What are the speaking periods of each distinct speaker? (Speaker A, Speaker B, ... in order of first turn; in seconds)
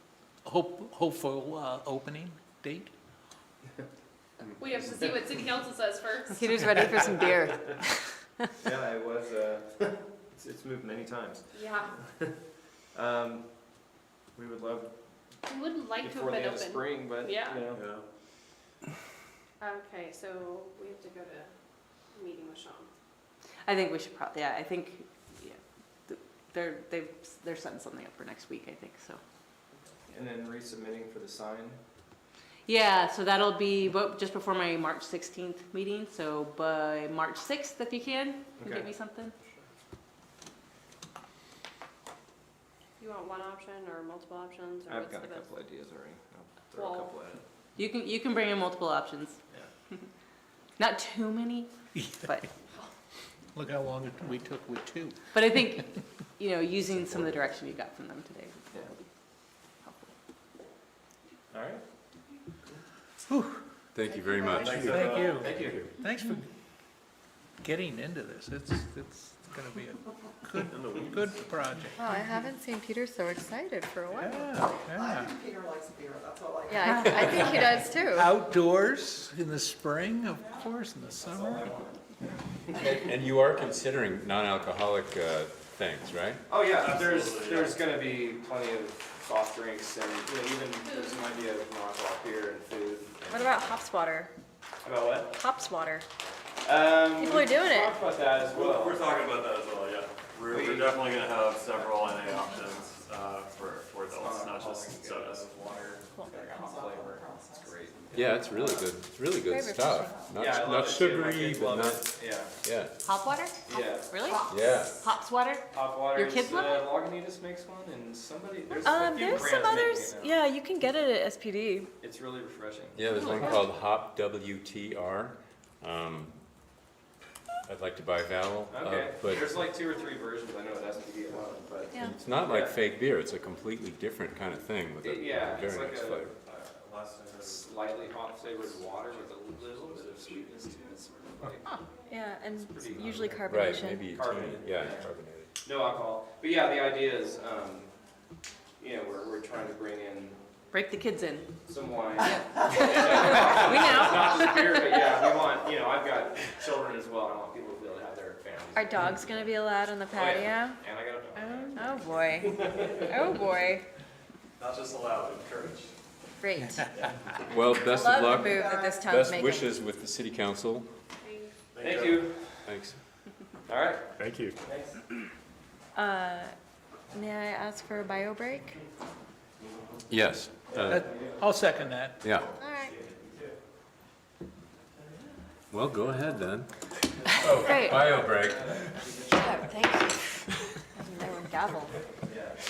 Speaker A: 0.4-2.9, 53.5-55.6, 63.3-63.6, 64.8-66.5, 67.6-72.0, 74.2-75.4, 78.0-81.7, 180.8-182.2
Speaker B: 4.6-6.8, 11.5-12.0, 15.4-17.7, 19.6-21.5, 22.1-22.9, 43.0-45.5, 46.7-47.1, 90.8-91.3, 171.2-171.6
Speaker C: 6.4-8.1, 64.4-64.7, 72.0-74.5, 76.7-78.3, 93.3-94.3, 95.3-96.0, 97.2-98.0, 109.5-110.1, 118.8-121.9, 142.1-144.0, 158.7-160.8, 161.7-163.8, 166.4-166.9, 167.9-169.7, 175.9-176.5, 177.1-178.8, 182.6-182.9, 187.5-188.0, 189.2-190.4, 190.9-191.9
Speaker D: 8.6-12.4, 12.9-14.9, 16.0-17.9, 30.1-31.8, 38.6-38.9, 44.9-47.4, 61.5-61.8, 65.3-65.8, 81.2-82.8, 86.5-93.7, 94.8-95.3, 96.6-99.1, 100.5-102.9, 104.1-108.8, 110.4-112.5, 113.7-114.3, 115.7-120.4, 122.0-123.0, 128.7-132.8, 135.0-136.7, 137.3-141.9, 142.5-145.1, 145.6-147.9, 148.8-150.4, 151.6-163.2, 171.8-172.6, 173.7-175.0, 180.7-181.6, 182.9-183.5, 187.2-190.1, 192.2-192.5
Speaker E: 17.7-18.1, 64.5-65.7, 70.6-71.4, 86.7-87.9, 98.5-105.6, 136.4-138.2, 138.8-140.8, 164.6-165.9, 171.7-172.3
Speaker F: 23.6-29.2, 32.6-39.3, 47.8-49.4, 50.8-52.5, 55.3-58.9, 59.8-60.1, 113.0-116.9, 123.1-123.6, 150.7-151.5, 152.2-154.8
Speaker G: 63.9-65.9, 82.7-86.4, 108.1-112.1, 112.6-112.9, 114.5-115.0, 122.9-126.4, 127.7-129.5, 132.0-136.3, 143.5-145.5, 167.5-170.9, 172.6-173.0, 180.1-181.1, 182.2-182.5, 185.7-189.1
Speaker H: 75.0-77.6, 106.3-108.3